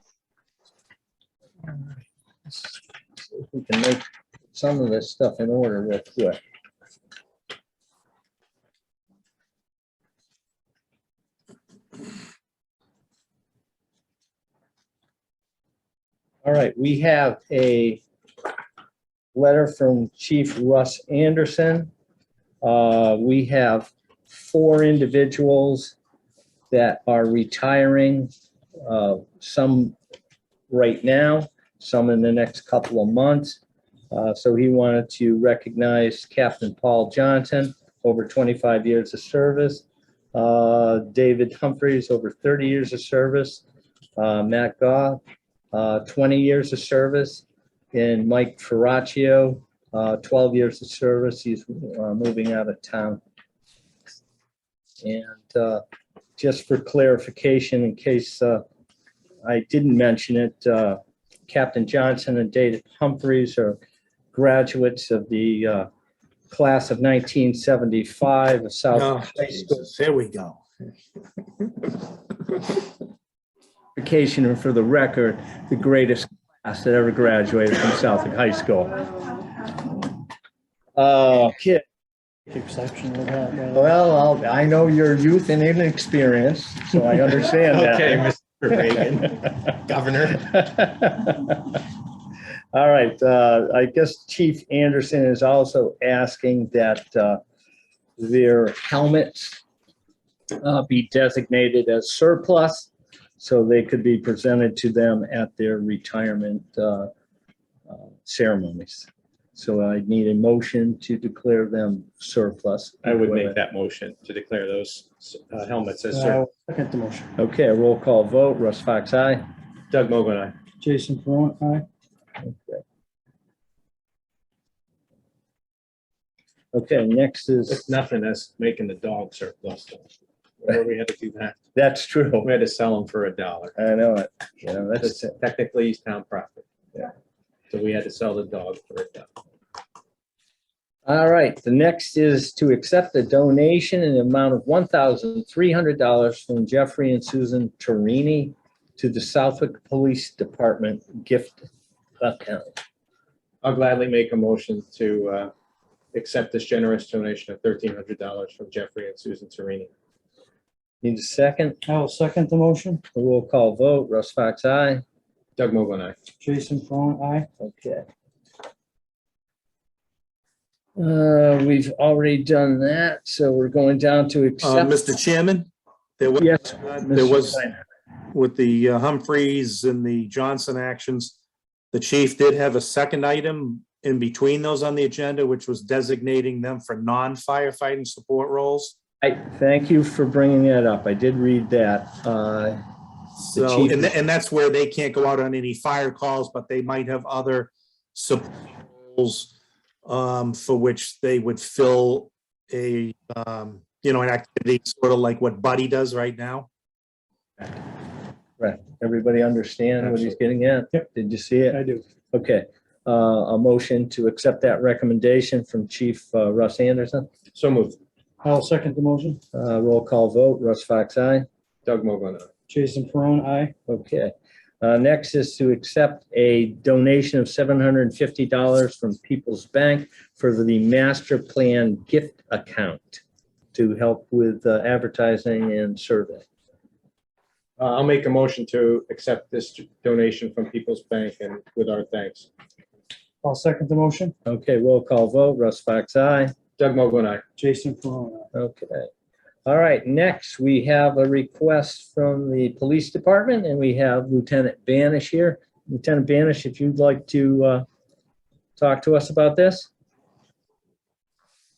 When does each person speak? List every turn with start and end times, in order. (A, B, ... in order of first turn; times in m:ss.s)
0:01.6-0:02.0 A
0:02.5-0:06.4 A
0:16.4-0:18.0 A
0:19.3-0:21.9 A
0:22.6-0:26.0 A
0:26.7-0:28.3 A
0:28.8-0:30.0 A
0:30.7-0:33.6 A
0:34.1-0:43.6 A
0:44.2-0:45.2 A
0:45.7-0:53.2 A
0:55.0-0:55.8 A
0:56.4-0:58.6 A
0:59.4-1:03.8 A
1:04.3-1:05.9 A
1:06.5-1:09.9 A
1:08.9-1:10.6 B
1:14.0-1:19.0 A
1:21.0-1:21.8 A
1:22.5-1:23.9 C
1:23.7-1:28.3 A
1:27.7-1:30.5 D
1:30.5-1:31.8 A
1:32.7-1:37.4 A
1:38.2-1:39.6 A
1:40.6-1:47.1 A
1:47.9-1:53.6 A
1:53.0-1:56.4 D
1:56.1-1:57.3 C
1:57.4-1:59.4 A
1:59.9-2:00.6 D
2:00.8-2:01.9 C
2:02.4-2:02.8 A
2:06.7-2:07.9 A
2:07.7-2:10.1 D
2:10.6-2:11.6 D
2:11.8-2:12.5 A
2:12.4-2:13.8 D
2:13.8-2:15.3 A
2:15.0-2:16.6 D
2:17.7-2:19.3 D
2:21.1-2:31.7 A
2:32.2-2:32.8 A
2:33.6-2:35.5 D
2:36.1-2:39.9 D
2:41.0-2:41.8 A
2:41.8-2:43.0 C
2:43.1-2:45.0 A
2:45.6-2:46.2 D
2:46.4-2:47.5 C
2:47.6-2:48.0 A
2:51.0-2:55.0 A
2:54.6-2:57.6 B
2:56.4-2:57.8 A
2:58.3-3:01.4 B
3:01.9-3:09.0 B
3:09.2-3:12.8 A
3:13.5-3:19.5 B
3:13.5-3:14.1 A
3:20.0-3:26.7 B
3:28.6-3:37.3 A
3:31.7-3:32.0 C
3:37.5-3:38.0 D
3:38.4-3:39.4 C
3:39.5-3:41.5 A
3:41.8-3:42.5 D
3:42.7-3:43.7 C
3:43.9-3:53.2 A
3:53.7-3:56.5 A
3:57.8-4:02.5 D
4:03.4-4:04.3 C
4:04.4-4:06.5 A
4:06.8-4:07.4 D
4:07.6-4:08.5 C
4:08.5-4:09.1 A
4:09.7-4:17.9 A
4:18.8-4:19.9 A